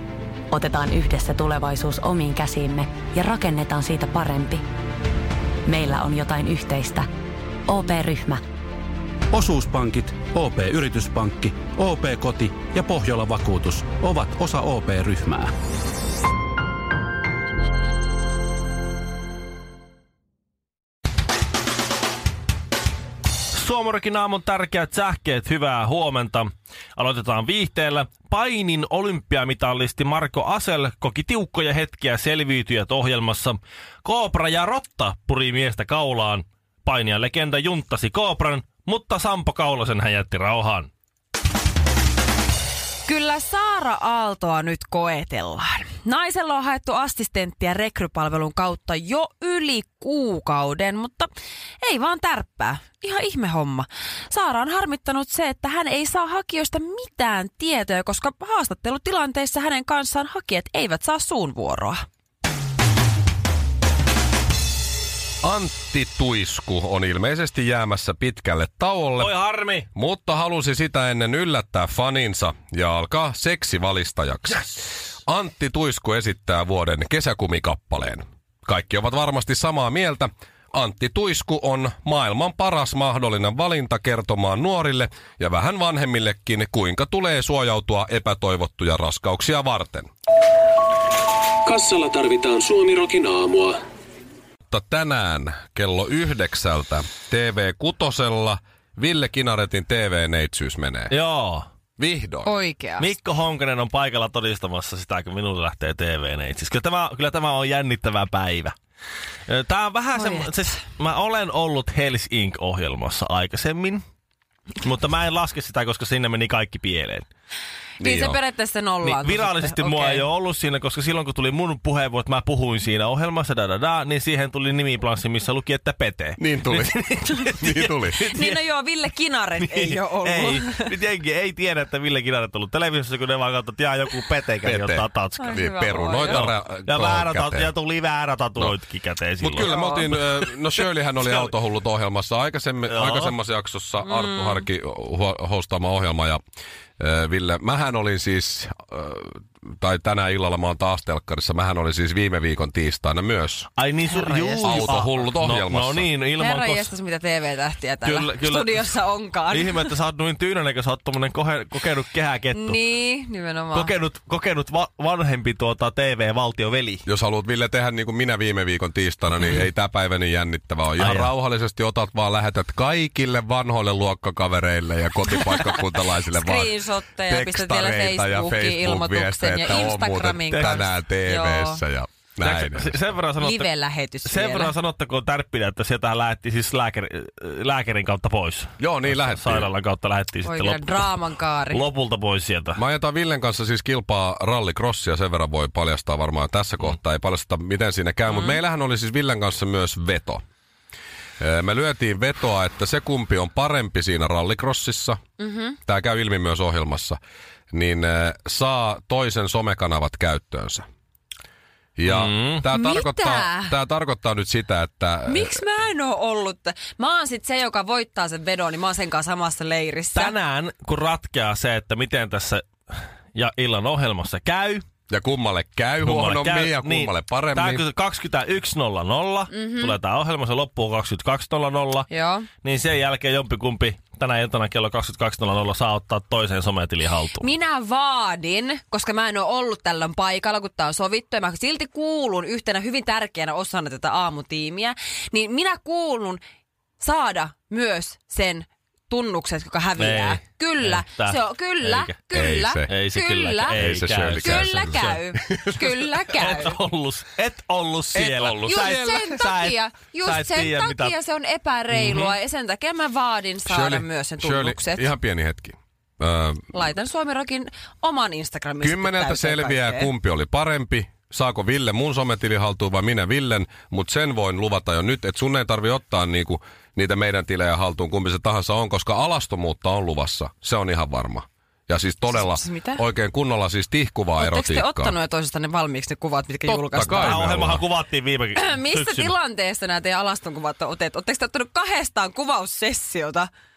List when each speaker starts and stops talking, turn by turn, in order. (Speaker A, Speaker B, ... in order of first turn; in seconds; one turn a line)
Speaker A: 0.5-4.6
Speaker A: 5.7-7.1
Speaker A: 7.7-8.4
Speaker B: 9.3-15.5
Speaker C: 23.5-40.9
Speaker D: 43.1-51.3
Speaker D: 51.8-62.0
Speaker E: 65.4-69.4
Speaker C: 69.2-69.9
Speaker E: 69.9-90.1
Speaker F: 91.7-93.8
Speaker E: 94.7-101.1
Speaker C: 101.1-101.7
Speaker E: 102.0-102.5
Speaker D: 102.5-103.1
Speaker C: 103.0-108.8
Speaker C: 109.5-114.0
Speaker D: 110.2-110.6
Speaker C: 114.8-117.3
Speaker E: 118.0-118.4
Speaker D: 118.0-120.3
Speaker C: 119.0-128.6
Speaker E: 126.4-128.3
Speaker D: 127.6-130.9
Speaker C: 129.6-135.5
Speaker E: 134.6-137.7
Speaker D: 135.4-136.4
Speaker C: 136.2-141.5
Speaker E: 139.4-146.4
Speaker D: 139.6-140.1
Speaker C: 142.9-143.3
Speaker D: 144.0-144.7
Speaker E: 147.0-153.7
Speaker C: 153.8-156.9
Speaker D: 154.1-155.0
Speaker E: 154.6-156.1
Speaker D: 156.3-159.9
Speaker C: 158.0-158.9
Speaker C: 159.5-162.8
Speaker D: 162.5-163.9
Speaker C: 163.7-167.1
Speaker E: 167.1-176.8
Speaker C: 171.0-171.3
Speaker D: 176.3-181.8
Speaker E: 177.3-183.0
Speaker C: 180.5-180.8
Speaker C: 182.4-183.7
Speaker D: 183.4-184.7
Speaker C: 184.2-191.1
Speaker E: 188.8-189.7
Speaker D: 190.4-191.8
Speaker C: 191.7-192.8
Speaker E: 192.8-200.4
Speaker D: 198.3-198.6
Speaker E: 201.4-205.2
Speaker D: 205.4-205.8
Speaker E: 205.9-207.2
Speaker E: 207.7-210.8
Speaker E: 212.0-215.7
Speaker C: 212.1-212.6
Speaker D: 212.7-213.8
Speaker D: 215.3-220.3
Speaker C: 220.2-224.8
Speaker E: 225.1-227.8
Speaker C: 226.0-232.1
Speaker D: 229.5-229.9
Speaker D: 232.1-232.5
Speaker C: 232.6-237.5
Speaker D: 237.4-246.4
Speaker D: 247.0-253.8
Speaker C: 250.0-252.2
Speaker E: 252.3-252.9
Speaker C: 252.9-255.2
Speaker E: 253.7-256.0
Speaker D: 254.4-256.8
Speaker C: 256.3-261.1
Speaker E: 258.1-259.2
Speaker D: 258.6-265.1
Speaker C: 261.9-262.4
Speaker E: 263.7-266.6
Speaker D: 266.7-270.1
Speaker E: 268.8-285.2
Speaker D: 282.3-283.0
Speaker D: 284.4-287.4
Speaker E: 286.7-287.8
Speaker C: 287.1-289.3
Speaker D: 288.6-293.5